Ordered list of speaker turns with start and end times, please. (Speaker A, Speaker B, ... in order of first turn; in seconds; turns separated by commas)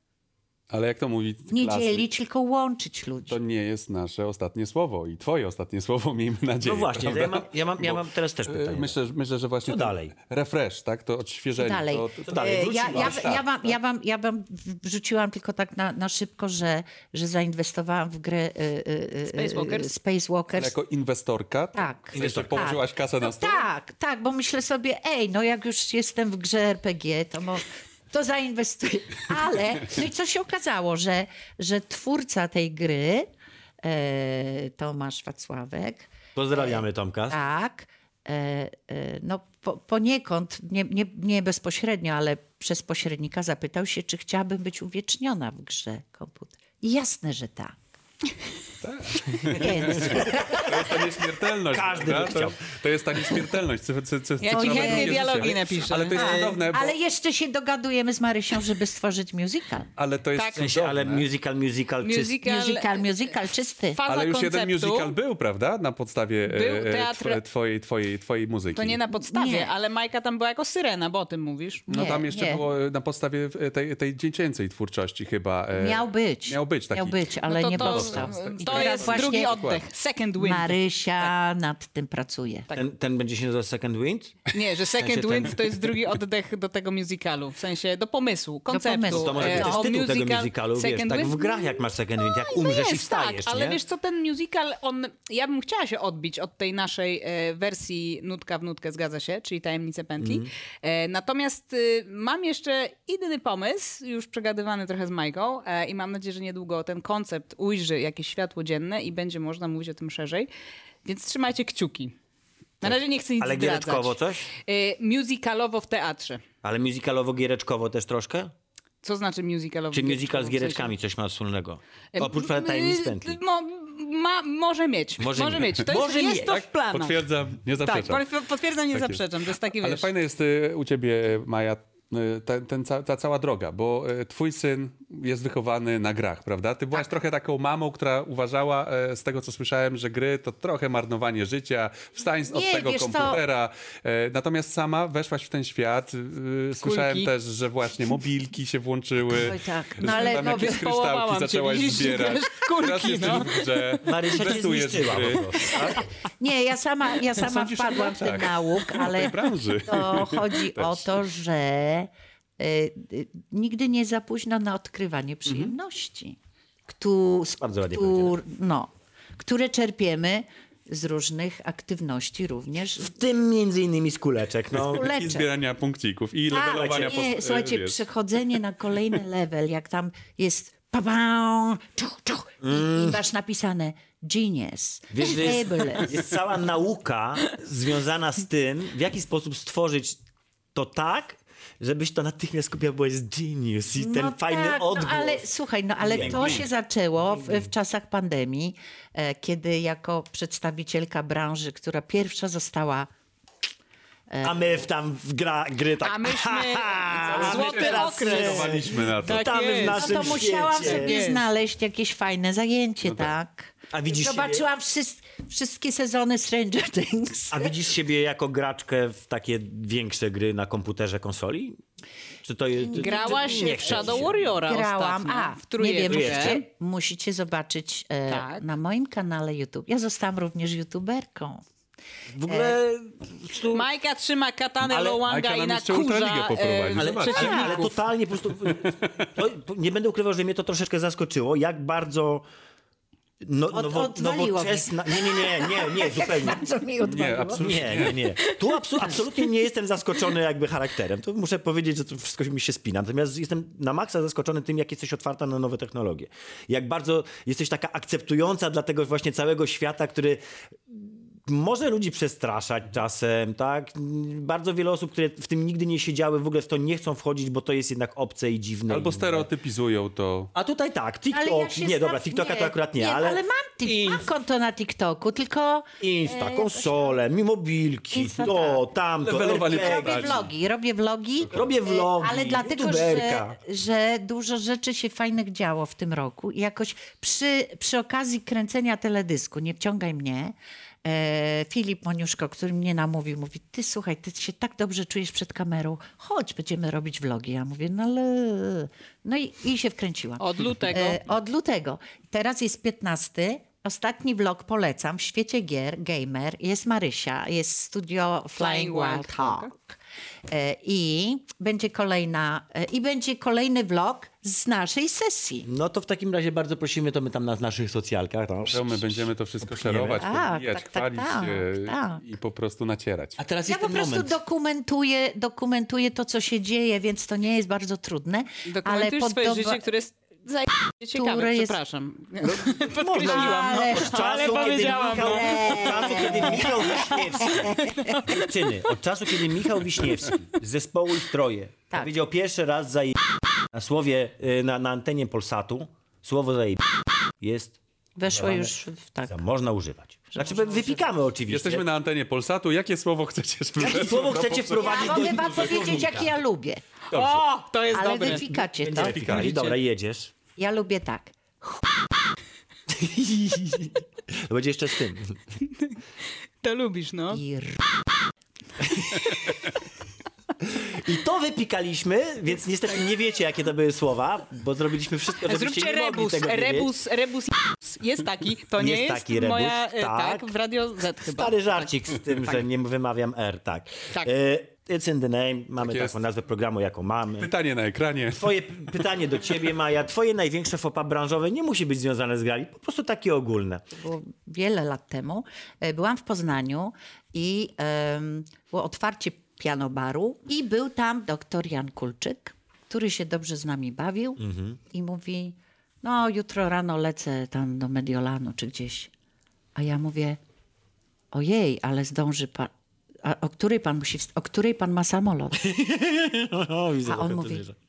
Speaker A: 0.7-2.0, Speaker B: 1.5-3.4, Speaker A: 3.3-13.4, Speaker C: 6.6-9.0, Speaker C: 9.7-10.1, Speaker B: 11.6-20.7, Speaker C: 12.2-13.3, Speaker D: 19.3-19.9, Speaker A: 20.6-23.6, Speaker B: 21.8-33.3, Speaker C: 22.1-22.8, Speaker B: 33.8-47.8, Speaker C: 36.4-37.4, Speaker A: 48.8-56.9, Speaker B: 49.4-51.1, Speaker C: 50.0-50.7, Speaker C: 51.7-52.6, Speaker D: 54.4-56.2, Speaker B: 54.5-55.4, Speaker B: 56.1-59.9, Speaker A: 60.0-61.3, Speaker D: 60.4-60.6, Speaker C: 60.6-62.4, Speaker D: 62.0-63.2, Speaker B: 62.4-64.0, Speaker D: 64.0-65.2, Speaker A: 64.1-69.0, Speaker D: 66.5-67.4, Speaker D: 68.7-71.8, Speaker B: 69.1-69.7, Speaker A: 71.9-79.8, Speaker B: 71.9-72.6, Speaker B: 75.7-79.5, Speaker D: 77.5-80.8, Speaker B: 80.4-82.7, Speaker C: 82.7-84.4, Speaker D: 84.5-110.5, Speaker C: 85.0-85.6, Speaker B: 88.7-89.8, Speaker C: 89.1-93.8, Speaker C: 100.2-100.5, Speaker D: 111.0-112.1, Speaker D: 112.8-116.4, Speaker C: 112.8-114.5, Speaker C: 116.6-118.5, Speaker D: 119.0-120.9, Speaker C: 119.9-123.4, Speaker D: 122.2-127.2, Speaker C: 125.2-127.1, Speaker A: 126.5-128.2, Speaker D: 127.8-130.1, Speaker A: 128.9-129.2, Speaker A: 129.8-156.0, Speaker B: 142.5-143.4, Speaker D: 146.8-147.3, Speaker B: 149.3-150.8, Speaker D: 150.0-154.6, Speaker C: 154.1-156.1, Speaker B: 156.4-173.1, Speaker A: 157.4-161.0, Speaker C: 167.6-168.4, Speaker C: 173.0-175.1, Speaker B: 174.8-175.5, Speaker A: 175.0-178.0, Speaker B: 176.5-186.3, Speaker C: 176.5-177.2, Speaker C: 182.6-183.2, Speaker C: 185.1-190.2, Speaker C: 190.8-195.4, Speaker B: 194.0-203.1, Speaker C: 196.0-196.7, Speaker B: 204.3-204.6, Speaker C: 204.4-211.2, Speaker D: 206.0-211.4, Speaker A: 207.4-209.6, Speaker B: 209.8-217.8, Speaker A: 213.1-213.3, Speaker C: 213.9-214.7, Speaker C: 217.5-221.8, Speaker C: 222.4-224.4, Speaker B: 222.8-231.6, Speaker D: 222.9-226.6, Speaker C: 226.1-226.6, Speaker D: 228.3-228.6, Speaker C: 232.3-233.9, Speaker B: 232.5-232.8, Speaker D: 233.7-237.8, Speaker C: 234.8-235.2, Speaker A: 235.2-238.0, Speaker C: 236.9-242.4, Speaker B: 237.4-237.8, Speaker A: 238.6-239.2, Speaker C: 243.4-246.6, Speaker B: 243.7-249.2, Speaker A: 247.0-248.2, Speaker C: 247.6-269.5, Speaker A: 268.9-270.5, Speaker C: 270.6-274.3, Speaker B: 271.3-277.1, Speaker C: 276.0-280.5, Speaker B: 278.1-278.8, Speaker A: 279.2-280.4, Speaker B: 279.5-315.7, Speaker C: 281.4-283.6, Speaker D: 300.4-301.2, Speaker D: 308.6-309.7, Speaker C: 315.6-320.3, Speaker A: 318.7-323.4, Speaker B: 320.2-322.2, Speaker C: 323.4-324.4, Speaker B: 323.6-329.8, Speaker D: 328.7-338.6, Speaker B: 331.1-331.8, Speaker C: 332.4-343.2, Speaker B: 333.1-338.2, Speaker C: 343.7-346.8, Speaker C: 347.4-347.8, Speaker B: 348.2-349.4, Speaker C: 348.3-348.8, Speaker C: 349.3-351.9, Speaker B: 350.3-351.1, Speaker A: 351.5-355.4, Speaker C: 353.8-356.3, Speaker B: 354.8-356.8, Speaker A: 357.1-357.4, Speaker D: 357.1-358.5, Speaker B: 357.9-359.4, Speaker C: 358.3-360.3, Speaker A: 359.0-359.8, Speaker B: 360.6-362.3, Speaker C: 362.9-365.4, Speaker D: 366.6-367.4, Speaker B: 367.3-368.0, Speaker C: 368.8-369.4, Speaker C: 370.6-376.9, Speaker D: 375.4-381.9, Speaker C: 378.8-380.5, Speaker C: 381.3-387.5, Speaker A: 385.8-386.2, Speaker A: 387.4-388.7, Speaker C: 388.3-393.8, Speaker B: 393.9-409.1, Speaker C: 404.4-404.8, Speaker B: 409.8-410.4, Speaker B: 411.3-412.7, Speaker B: 413.2-415.6, Speaker C: 415.5-417.8, Speaker B: 417.0-417.6